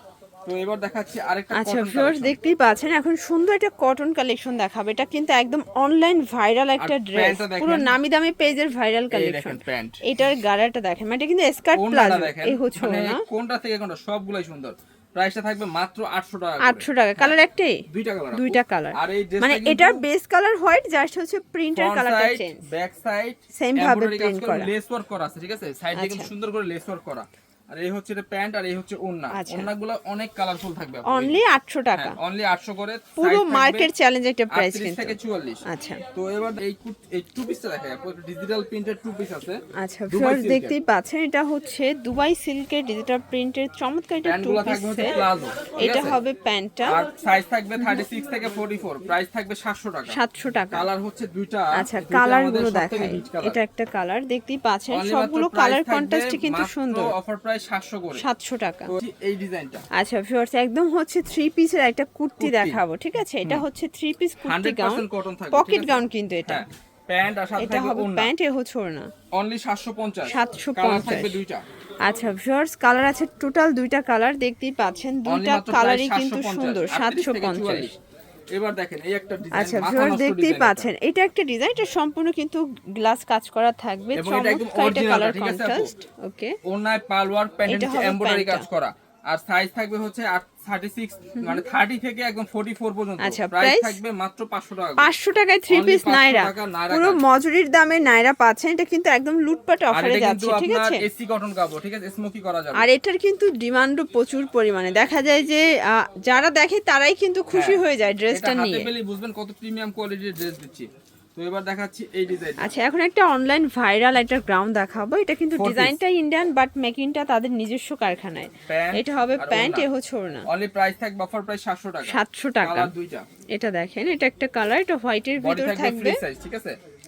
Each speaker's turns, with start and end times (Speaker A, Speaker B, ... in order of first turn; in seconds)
Speaker A: 0.5-2.4, 6.8-8.0, 9.1-10.0, 11.7-17.4, 17.9-20.0, 21.8-31.4, 31.9-33.9, 34.5-35.6, 36.1-40.8, 44.2-46.2, 46.9-50.2, 50.7-53.6, 54.9-58.2, 58.9-59.9, 62.4-62.8, 64.4-68.3, 69.3-71.7, 75.3-78.0, 78.5-80.9, 84.1-85.9, 86.7-95.1, 95.7-97.2, 99.9-102.9, 107.5-112.7, 115.5-116.0, 118.7-119.9, 120.5-123.3, 125.4-126.8
Speaker B: 1.5-13.2, 16.6-22.7, 23.6-24.7, 25.9-26.3, 29.3-29.7, 31.1-32.2, 33.2-36.0, 39.8-45.2, 45.8-47.0, 50.1-50.9, 51.8-57.1, 58.2-58.9, 60.0-66.7, 67.6-69.1, 70.3-71.4, 72.0-77.9, 79.5-86.6, 87.7-88.7, 93.2-94.0, 95.0-101.0, 102.8-108.9, 112.6-120.5, 122.0-122.9, 123.5-126.2